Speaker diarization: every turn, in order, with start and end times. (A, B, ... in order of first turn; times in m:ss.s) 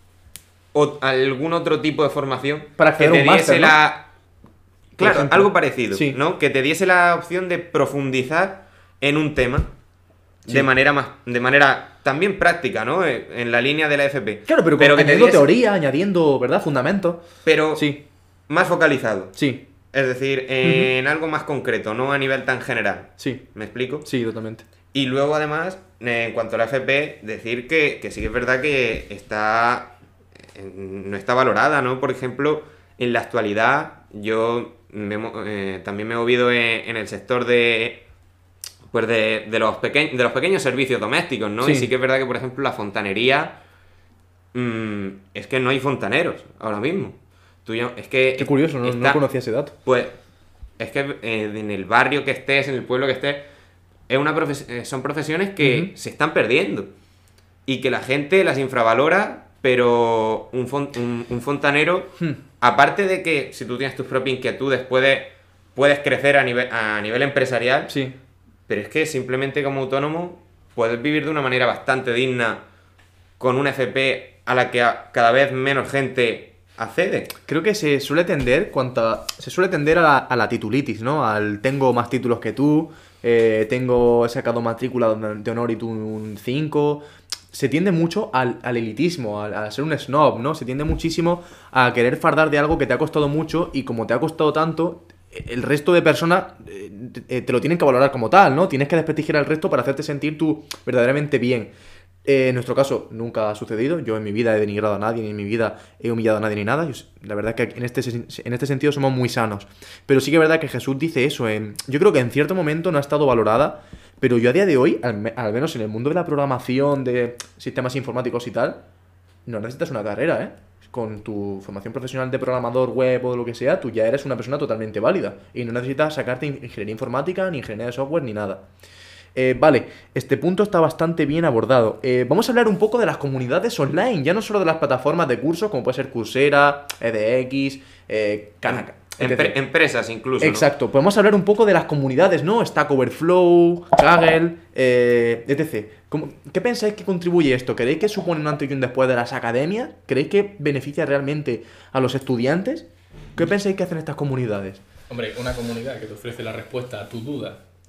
0:00.7-0:04.1 A
0:02.8-0:03.8 B
0:05.0-0:06.2 B
0:05.0-0:09.7 A
0:10.4-0:15.5 A
0:14.5-0:18.0 B
0:17.4-0:18.0 A
0:18.5-0:19.4 A
0:19.4-0:19.6 B
0:19.9-0:24.1 A
0:20.6-0:20.9 B
0:23.2-0:23.4 B
0:24.0-0:24.7 B
0:24.9-0:29.9 A
0:30.5-0:38.0 A
0:38.9-0:43.6 A
0:41.6-0:41.9 B
0:44.5-0:49.2 A
0:48.4-0:49.7 B
0:49.8-0:50.2 A
0:50.8-0:53.5 A
0:54.1-0:56.9 A
0:55.6-0:55.9 B
0:57.7-1:07.9 A
1:07.9-1:08.2 B
1:08.7-1:12.6 A
1:13.4-1:17.3 A
1:17.5-1:41.7 B
1:42.2-1:58.8 B
1:59.5-2:08.6 B
2:09.4-2:19.6 B
2:18.7-2:20.7 A
2:20.4-2:34.8 B
2:35.1-2:37.6 C